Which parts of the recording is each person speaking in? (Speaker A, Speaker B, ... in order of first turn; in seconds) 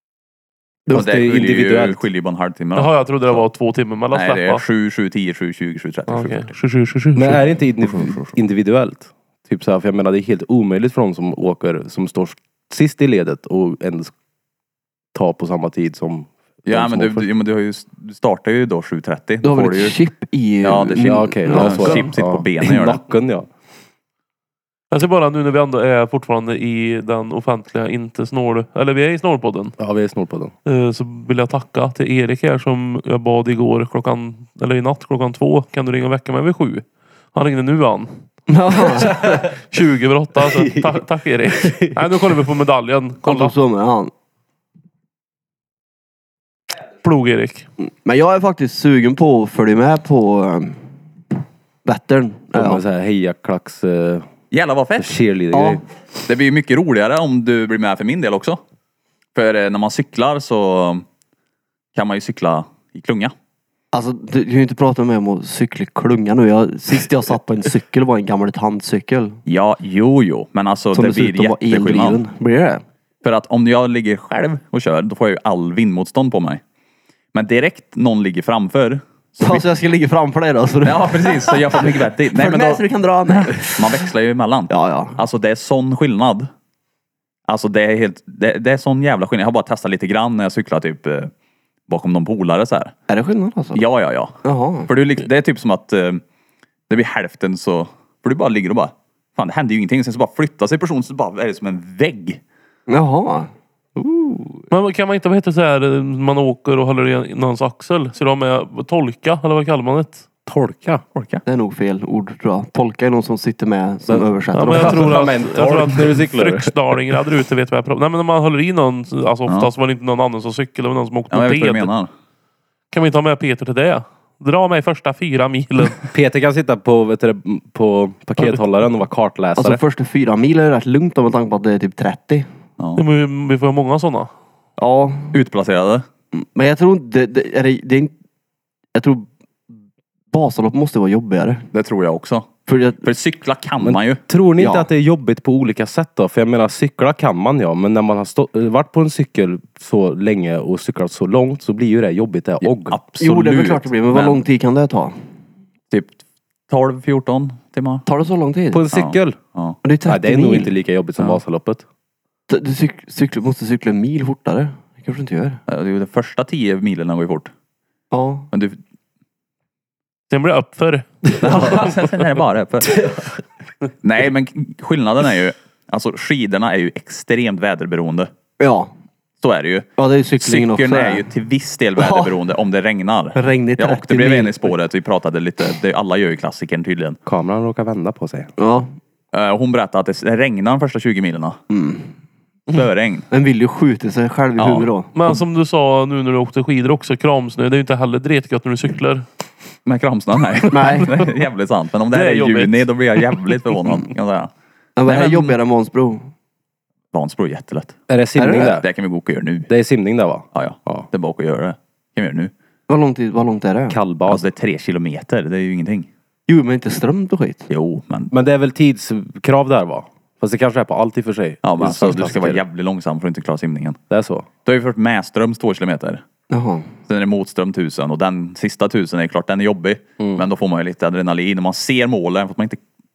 Speaker A: 0.9-2.0, 7.2-14.1, 15.1-17.3, 21.0-23.5, 29.8-30.5, 52.5-54.3, 55.0-55.8, 110.5-111.0, 114.1-116.7, 126.1-129.8, 143.8-153.0, 158.7-159.4, 160.0-161.8, 187.2-188.5, 208.1-208.9, 209.7-211.1, 213.9-214.5, 218.3-222.6, 224.1-224.5
Speaker B: 0.9-3.5, 4.1-6.5, 8.0-8.3, 16.7-20.0, 20.6-23.0, 54.5-55.2, 56.2-58.6, 59.3-61.0, 61.9-63.3, 69.5-72.2, 73.2-76.6, 77.3-79.7, 80.8-86.5, 87.5-91.3, 91.9-92.9, 93.7-96.2, 96.9-102.4, 111.1-111.4, 119.5-119.7, 121.3-122.1, 132.8-133.0, 135.3-136.1, 141.7-144.2, 152.6-154.4, 155.9-158.1, 158.9-159.8, 165.7-167.5, 168.5-168.8, 171.4-173.1, 174.0-178.3, 179.4-179.9, 180.4-187.2, 189.3-191.6, 192.7-193.3, 194.6-195.4, 199.8-204.5, 205.1-205.6, 207.1-208.0, 208.7-209.7, 210.5-212.5, 214.3-216.1, 217.7-218.3, 221.6-224.0, 224.6-226.2, 227.1-232.8
Speaker C: 2.8-4.6, 6.1-7.6, 24.9-29.7, 30.6-38.2, 38.8-43.5, 47.0-47.6, 104.7-110.2, 114.5-121.9, 122.9-126.0, 132.9-134.3, 170.3-171.9, 195.1-199.2, 202.1-203.0
Speaker D: 19.4-22.0, 38.5-39.5, 43.2-44.1, 47.8-50.8, 51.8-52.8, 55.5-55.8, 63.9-69.4, 70.9-72.8, 79.4-84.1, 84.7-85.2, 93.1-93.8, 94.5-94.9, 102.9-104.6, 111.5-115.2, 129.6-132.5, 134.8-135.4, 136.3-138.1, 138.9-139.2, 140.3-141.7, 142.7-143.1, 144.6-144.9, 153.2-155.1, 158.1-158.8, 159.8-160.7, 162.5-165.6, 168.1-168.5, 178.6-178.9, 180.0-181.2, 182.0-182.4, 183.3-184.7, 188.6-188.9, 191.7-192.1, 193.3-195.1, 200.7-201.2, 205.0-206.2, 208.3-208.7, 212.9-213.9, 216.5-217.7, 226.5-226.9